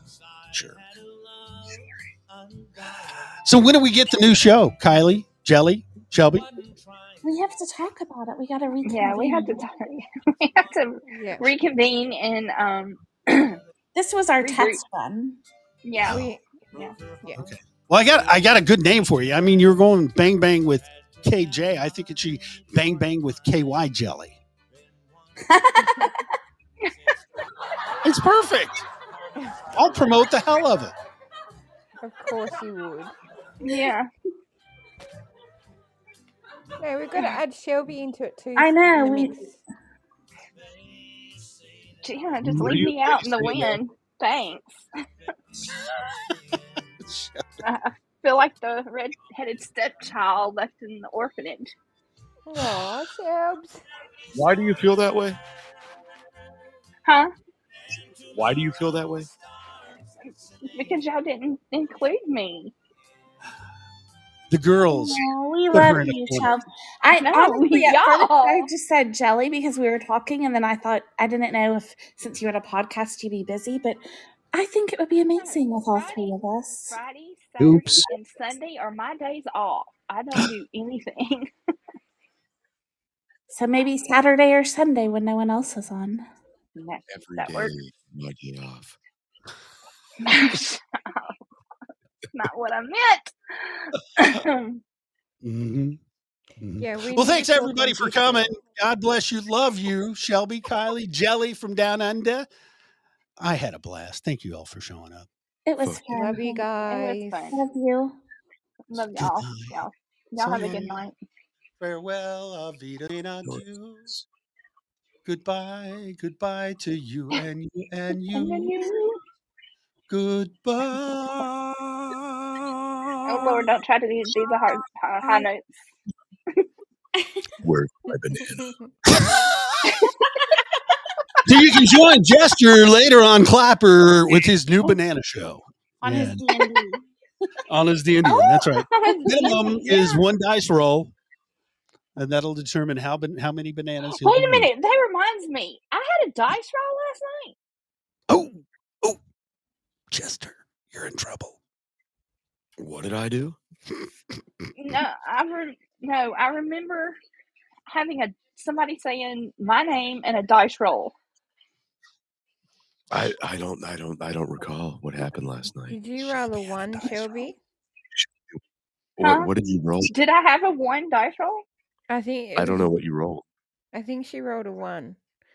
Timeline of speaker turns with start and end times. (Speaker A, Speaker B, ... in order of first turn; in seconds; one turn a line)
Speaker A: 0.5-0.8
Speaker B: 3.4-6.5
Speaker C: 7.2-9.6
Speaker D: 8.8-13.6
Speaker E: 11.1-11.5
Speaker C: 13.9-15.4
Speaker D: 14.4-14.8
Speaker D: 15.8-16.9
Speaker E: 16.1-16.4
Speaker E: 17.2-17.5
Speaker B: 17.3-24.4
Speaker C: 25.5-26.1
Speaker B: 28.0-28.8
Speaker B: 29.7-30.9
Speaker E: 32.0-33.1
Speaker D: 33.6-34.1
Speaker E: 36.8-39.6
Speaker C: 38.6-39.5
Speaker D: 42.0-44.8
Speaker A: 42.5-43.8
Speaker B: 47.0-47.4
Speaker D: 47.6-51.7
Speaker E: 52.5-53.8
Speaker A: 54.3-55.4
Speaker D: 57.1-57.3
Speaker A: 58.3-59.3
Speaker D: 60.6-62.7
Speaker B: 64.5-66.6
Speaker C: 64.9-77.0
Speaker D: 67.1-68.7
Speaker D: 75.3-81.5
Speaker B: 77.6-78.1
Speaker C: 83.5-86.3
Speaker D: 86.8-87.7
Speaker A: 87.1-89.0
Speaker D: 90.2-91.4
Speaker D: 92.3-94.8
Speaker B: 95.4-96.0
Speaker B: 96.6-102.5
Speaker E: 96.8-98.5
Speaker B: 103.4-105.3
Speaker C: 105.7-106.7
Speaker E: 106.1-107.5
Speaker D: 106.8-107.6
Speaker C: 107.5-108.2
Speaker D: 108.9-111.1
Speaker B: 109.2-109.9
Speaker B: 110.4-111.1
Speaker B: 111.8-114.1
Speaker A: 113.4-114.2
Speaker B: 115.2-118.8
Speaker D: 118.3-119.2
Speaker B: 120.1-123.6
Speaker D: 123.3-125.7
Speaker A: 127.6-128.7
Speaker B: 129.1-129.6
Speaker B: 131.4-136.6
Speaker C: 136.0-137.1
Speaker B: 137.7-141.1
Speaker D: 138.3-139.9
Speaker C: 139.1-140.1
Speaker B: 142.2-144.7
Speaker D: 144.2-147.6
Speaker B: 148.3-149.2
Speaker B: 150.1-151.6
Speaker A: 152.8-153.6
Speaker D: 154.8-157.2
Speaker D: 157.9-161.1
Speaker A: 163.1-166.0
Speaker E: 165.9-167.6
Speaker B: 166.8-167.5
Speaker A: 168.2-168.6
Speaker A: 169.2-170.1
Speaker D: 169.2-169.5
Speaker D: 170.1-171.6
Speaker E: 172.1-172.9
Speaker A: 172.6-173.4
Speaker E: 173.9-175.2